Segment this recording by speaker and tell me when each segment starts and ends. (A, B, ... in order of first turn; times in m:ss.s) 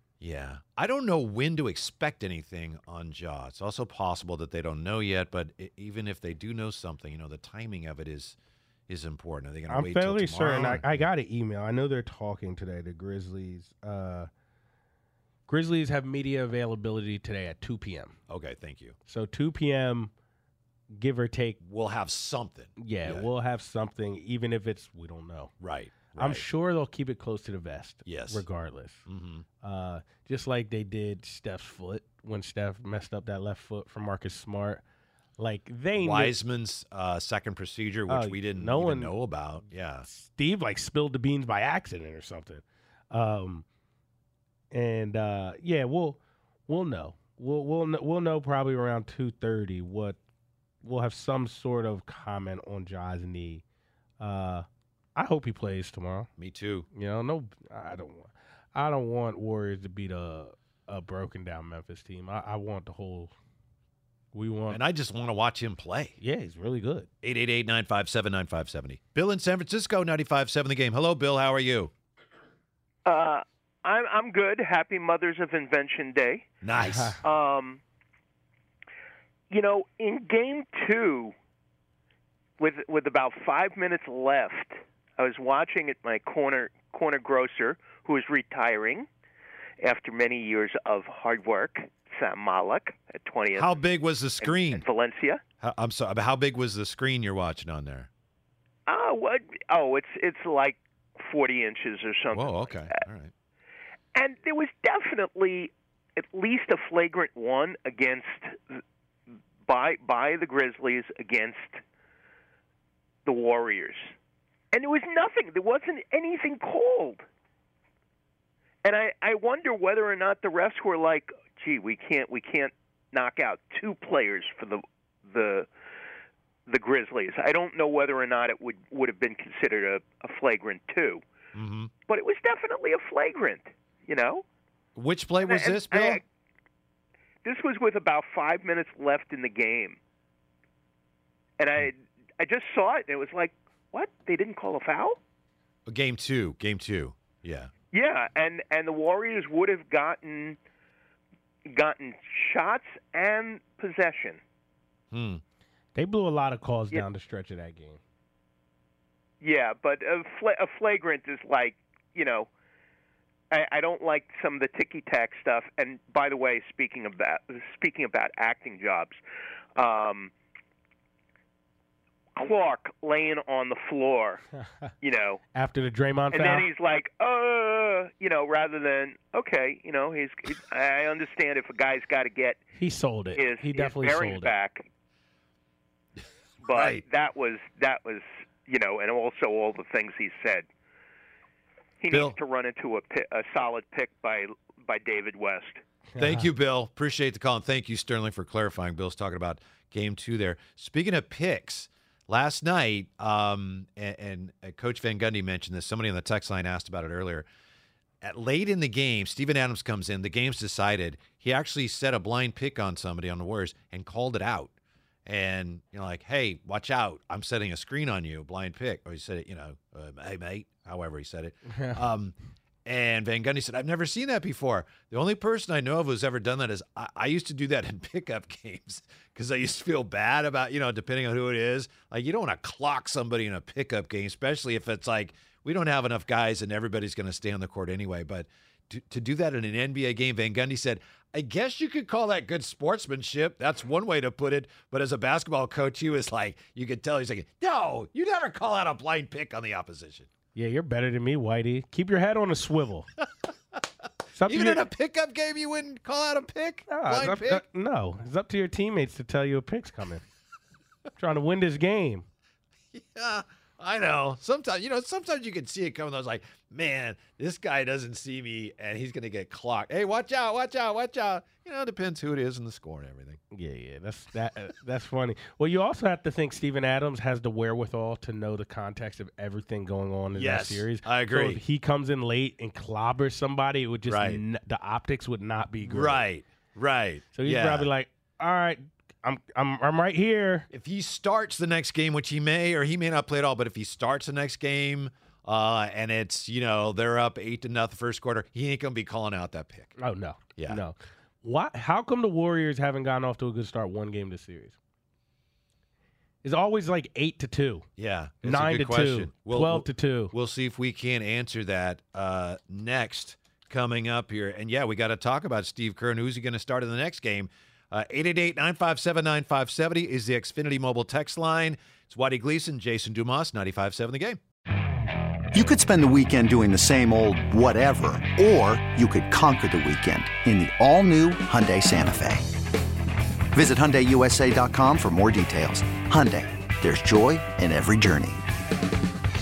0:00.2-0:08.4 A
0:08.9-0:11.0 A
0:09.7-0:14.3 B
0:15.5-0:18.2 B
0:18.3-0:19.0 A
0:19.1-0:20.1 B
0:21.0-0:21.6 B
0:21.6-0:23.3 A
0:22.8-0:25.5 B
0:25.6-0:26.4 A
0:26.1-0:29.1 B
0:28.0-0:28.5 A
0:29.1-0:29.4 A
0:29.6-0:34.8 B
0:35.4-0:36.4 B
0:36.0-0:40.1 A
0:38.1-0:39.1 B
0:40.0-0:43.6 B
0:44.7-0:50.2 B
0:50.8-0:53.6 B
0:54.2-0:56.3 B
0:56.4-0:56.9 A
0:56.9-1:03.3 B
1:04.3-1:04.8 B
1:04.7-1:06.2 A
1:06.2-1:07.1 B
1:07.2-1:11.9 A
1:13.0-1:16.5 C
1:16.6-1:17.2 A
1:17.2-1:17.8 C
1:19.5-1:21.3 C
1:22.6-1:29.1 C
1:29.8-1:33.7 C
1:33.6-1:34.8 A
1:34.4-1:35.4 C
1:35.6-1:38.1 A
1:38.9-1:42.8 C
1:42.3-1:43.3 A
1:44.2-1:48.8 C
1:49.7-1:51.8 C
1:53.3-1:54.1 C
1:54.7-1:57.2 C
1:58.8-2:05.7 C
2:06.7-2:11.2 C
2:11.5-2:11.9 A
2:12.1-2:14.4 C
2:15.0-2:16.2 A
2:15.4-2:16.2 C
2:17.4-2:20.0 C
2:21.6-2:25.2 C
2:25.9-2:27.7 A
2:27.9-2:30.6 C
2:31.7-2:34.4 C
2:35.1-2:35.4 A
2:36.0-2:38.0 B
2:39.4-2:42.5 C
2:43.5-2:49.2 C
2:49.8-2:50.3 C
2:52.4-2:54.4 C
2:55.0-2:55.4 C
2:55.6-2:56.7 B
2:56.3-3:02.6 C
3:02.8-3:04.5 B
3:03.4-3:04.9 C
3:06.6-3:10.7 C
3:06.7-3:07.0 A
3:12.0-3:15.8 C
3:12.1-3:12.4 A
3:16.1-3:16.5 B
3:16.2-3:27.5 A
3:28.2-3:34.7 A
3:35.3-3:42.4 A
3:41.7-3:42.0 B
3:42.9-4:10.3 A
4:10.6-4:13.1 B
4:14.4-4:14.8 B
4:14.5-4:17.6 A
4:16.9-4:20.2 B
4:21.2-4:22.3 B
4:22.9-4:33.4 A
4:33.5-4:46.3 B
4:40.3-4:41.6 A
4:44.1-4:44.4 A
4:45.8-4:47.9 A
4:47.3-4:50.7 B
4:50.7-5:00.0 A
5:00.0-5:04.8 B
5:00.6-5:00.8 A
5:06.4-5:07.9 B
5:08.0-5:24.4 A
5:08.4-5:10.3 B
5:25.5-5:32.4 D
5:33.5-5:38.4 D